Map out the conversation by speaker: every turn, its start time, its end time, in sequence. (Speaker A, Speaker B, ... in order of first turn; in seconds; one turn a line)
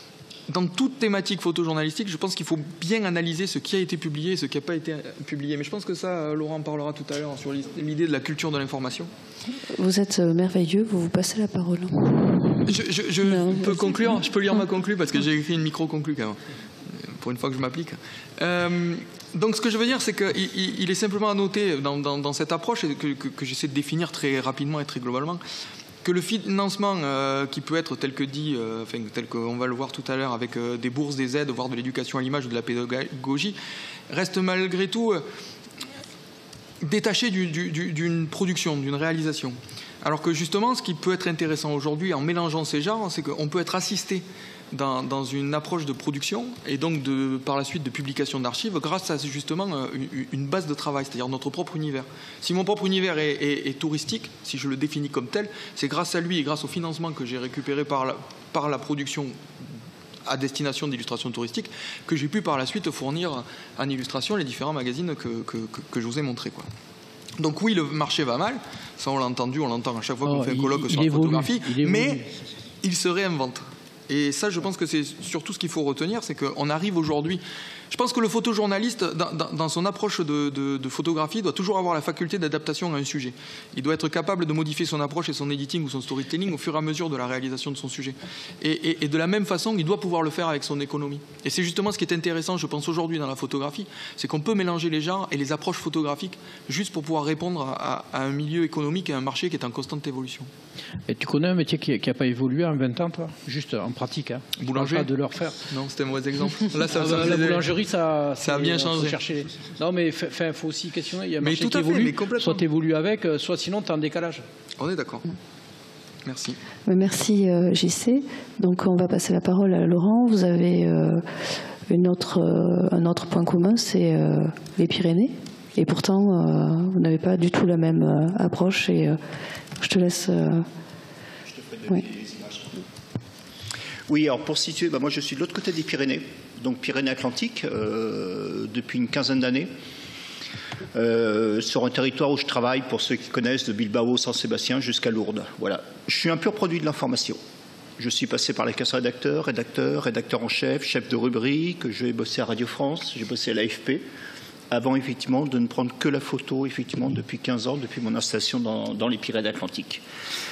Speaker A: 0.5-9.1
Speaker B: 9.7-14.6
Speaker A: 12.7-16.4
Speaker A: 17.0-25.4
Speaker A: 26.0-33.6
Speaker A: 34.1-35.2
Speaker A: 36.8-59.4
Speaker A: 60.3-66.7
Speaker A: 67.4-72.2
Speaker C: 70.2-72.3
Speaker A: 72.8-100.5
Speaker C: 101.1-105.7
Speaker A: 104.6-105.1
Speaker A: 105.6-107.7
Speaker C: 106.9-114.4
Speaker A: 108.4-109.2
Speaker A: 111.4-112.6
Speaker A: 114.8-115.3
Speaker A: 116.2-116.6
Speaker B: 116.9-121.2
Speaker B: 121.9-129.2
Speaker B: 129.8-130.7
Speaker D: 131.5-132.8
Speaker D: 134.1-139.7
Speaker D: 140.9-147.4
Speaker D: 148.0-154.0
Speaker D: 154.7-160.0